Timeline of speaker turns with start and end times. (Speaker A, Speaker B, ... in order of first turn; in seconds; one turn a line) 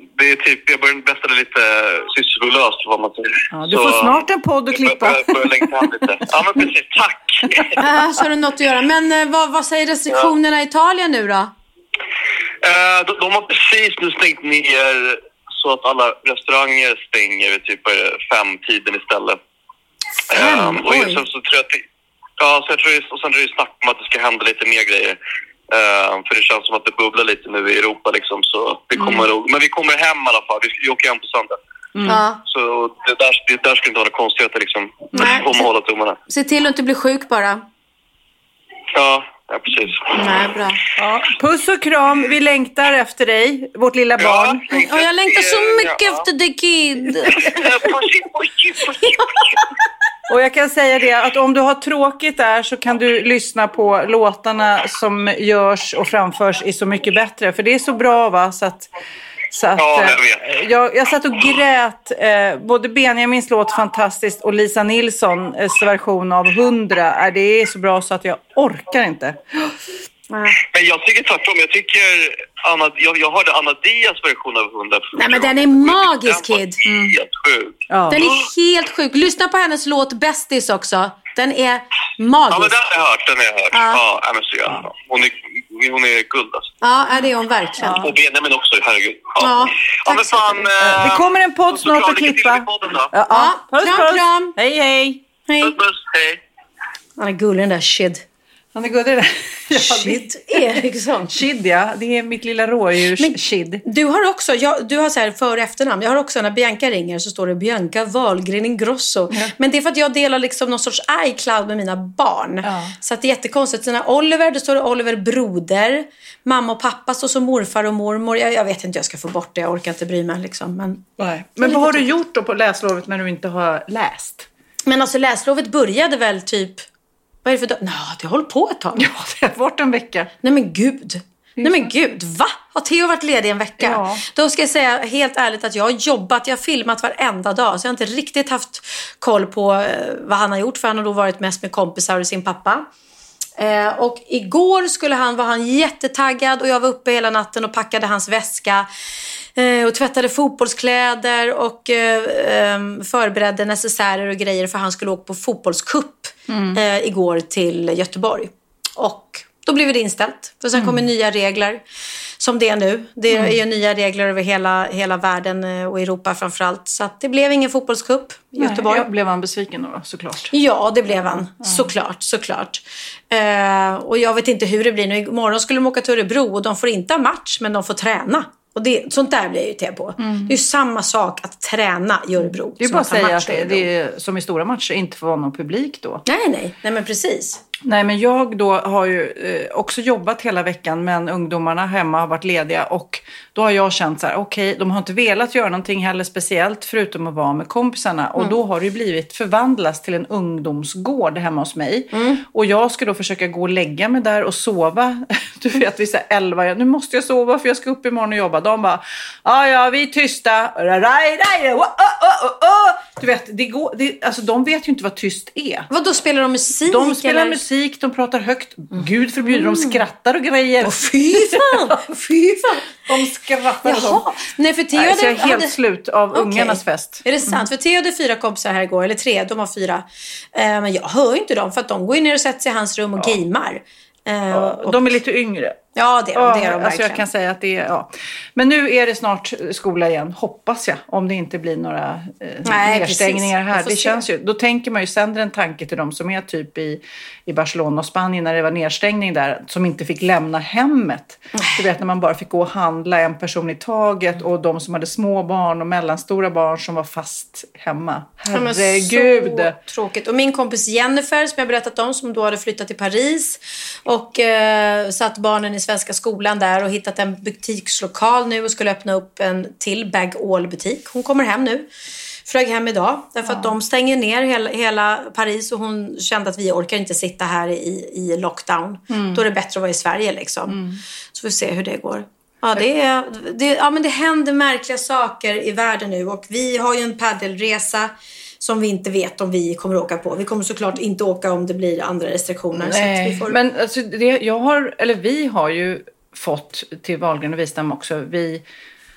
Speaker A: 0.2-4.2
Speaker B: 3.5-5.9
Speaker A: 4.7-7.8
Speaker C: 7.8-11.5
Speaker A: 12.6-19.4
Speaker C: 20.3-21.2
Speaker A: 20.3-21.8
Speaker A: 22.4-25.2
Speaker A: 25.7-31.6
Speaker B: 29.0-29.2
Speaker B: 31.9-32.2
Speaker C: 32.1-32.4
Speaker A: 32.4-36.2
Speaker C: 35.1-35.5
Speaker C: 36.3-37.6
Speaker A: 38.9-40.2
Speaker C: 40.1-41.3
Speaker B: 41.4-44.7
Speaker A: 44.2-46.2
Speaker C: 44.8-47.9
Speaker A: 47.4-49.6
Speaker B: 50.3-58.9
Speaker B: 59.5-69.7
Speaker A: 59.8-60.4
Speaker C: 70.3-70.6
Speaker A: 70.7-77.8
Speaker C: 75.1-76.8
Speaker B: 76.9-77.2
Speaker B: 77.9-78.3
Speaker C: 78.1-82.8
Speaker A: 82.5-86.7
Speaker C: 83.7-84.0
Speaker C: 86.8-88.0
Speaker B: 87.8-88.1
Speaker A: 87.9-93.1
Speaker C: 89.4-90.7
Speaker B: 90.8-95.2
Speaker C: 93.3-94.5
Speaker C: 95.5-95.8
Speaker A: 95.6-96.4
Speaker C: 97.2-98.2
Speaker B: 98.7-100.6
Speaker C: 99.7-101.3
Speaker B: 101.3-103.8
Speaker C: 103.2-122.1
Speaker B: 112.6-113.0
Speaker B: 121.2-124.5
Speaker C: 124.9-126.8
Speaker C: 127.4-129.1
Speaker B: 129.0-130.3
Speaker C: 130.4-142.9
Speaker B: 131.6-131.9
Speaker B: 133.8-134.2
Speaker C: 143.6-148.9
Speaker C: 149.6-161.8
Speaker B: 156.5-156.8
Speaker B: 160.8-161.0
Speaker C: 162.4-169.1
Speaker B: 163.3-163.6
Speaker B: 168.6-170.5
Speaker C: 170.5-183.9
Speaker B: 180.2-180.6
Speaker B: 182.8-186.2
Speaker C: 186.2-187.6
Speaker B: 187.8-215.9
Speaker C: 202.1-202.4
Speaker C: 215.9-217.6
Speaker B: 216.8-221.9
Speaker C: 219.4-220.0
Speaker C: 220.8-222.9
Speaker B: 223.1-224.2
Speaker C: 223.8-225.8
Speaker B: 224.9-227.6
Speaker C: 226.3-235.0
Speaker B: 234.5-235.8
Speaker C: 235.9-237.2
Speaker B: 236.3-259.8
Speaker C: 242.6-244.2
Speaker C: 251.5-251.8
Speaker C: 258.5-271.9
Speaker C: 272.4-280.8
Speaker B: 273.4-273.8
Speaker B: 279.1-279.4
Speaker B: 280.7-281.0
Speaker C: 281.3-293.6
Speaker B: 292.8-298.6